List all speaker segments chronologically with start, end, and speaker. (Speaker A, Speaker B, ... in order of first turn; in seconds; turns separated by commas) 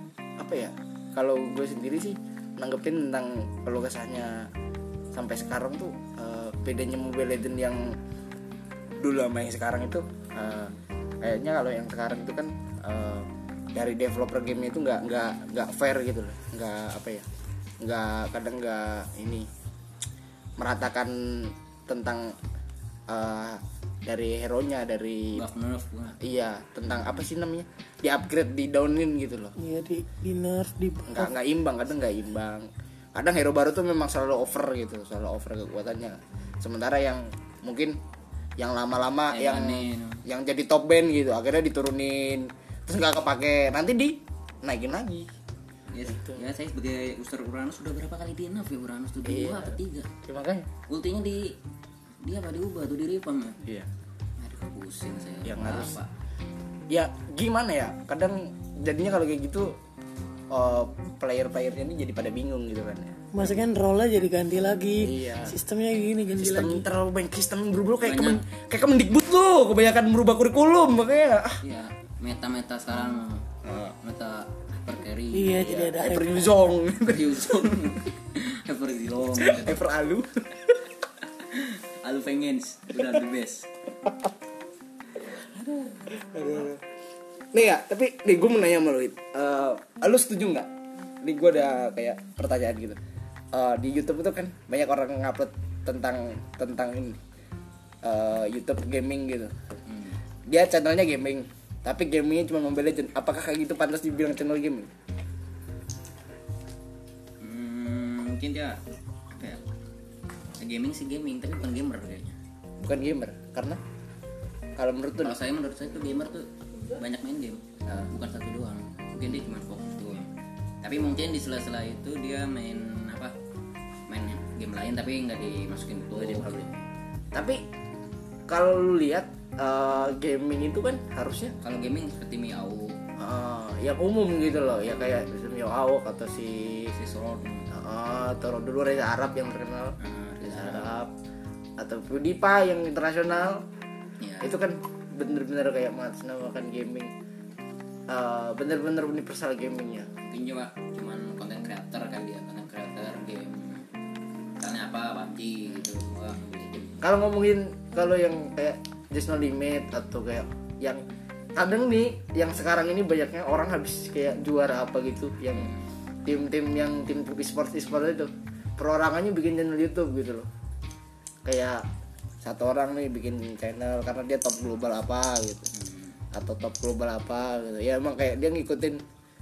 Speaker A: 0.4-4.5, Speaker A: 5.1-8.0, Speaker A: 9.0-17.3, Speaker A: 17.8-19.5, Speaker A: 20.6-22.4, Speaker A: 23.1-25.4, Speaker B: 25.3-26.2, Speaker A: 26.2-29.5, Speaker C: 29.6-31.3, Speaker A: 31.1-38.0, Speaker A: 38.6-45.3, Speaker B: 39.3-40.2, Speaker B: 45.9-50.1, Speaker A: 46.1-46.5, Speaker A: 49.2-50.7, Speaker B: 50.9-51.5, Speaker B: 52.2-53.6, Speaker B: 54.4-56.1, Speaker A: 55.4-56.0, Speaker A: 56.9-59.8, Speaker A: 60.5-63.5, Speaker C: 63.3-66.9, Speaker A: 65.0-65.5, Speaker A: 66.4-71.6, Speaker B: 68.0-68.4, Speaker B: 71.6-73.5, Speaker A: 73.6-74.0, Speaker B: 74.0-75.7, Speaker C: 75.3-76.5, Speaker A: 75.6-78.0, Speaker B: 77.1-79.8, Speaker A: 79.3-80.8, Speaker B: 81.5-83.7, Speaker A: 85.3-86.8, Speaker A: 87.5-90.7, Speaker A: 91.2-93.0, Speaker A: 93.5-97.2, Speaker A: 98.0-99.5, Speaker B: 99.9-100.2, Speaker A: 100.5-104.9, Speaker B: 107.4-108.8, Speaker B: 109.3-109.6, Speaker B: 110.6-112.4, Speaker A: 112.8-113.8, Speaker A: 114.8-115.4, Speaker B: 115.2-120.3, Speaker A: 117.9-118.1, Speaker B: 120.8-123.3, Speaker B: 124.1-126.9, Speaker A: 126.2-126.6, Speaker A: 127.3-127.6, Speaker A: 128.5-131.6, Speaker B: 131.6-133.0, Speaker A: 133.2-136.9, Speaker B: 136.9-137.7, Speaker A: 137.7-141.1, Speaker B: 140.0-140.9, Speaker A: 141.8-143.7, Speaker B: 144.2-144.6, Speaker A: 144.4-147.1, Speaker A: 148.1-150.1, Speaker B: 150.2-153.9, Speaker B: 154.6-157.1, Speaker A: 157.0-161.0, Speaker A: 161.6-165.7, Speaker B: 165.6-165.8, Speaker A: 166.2-170.5, Speaker A: 171.4-171.9, Speaker A: 172.4-175.7, Speaker B: 175.8-176.2, Speaker A: 176.3-179.0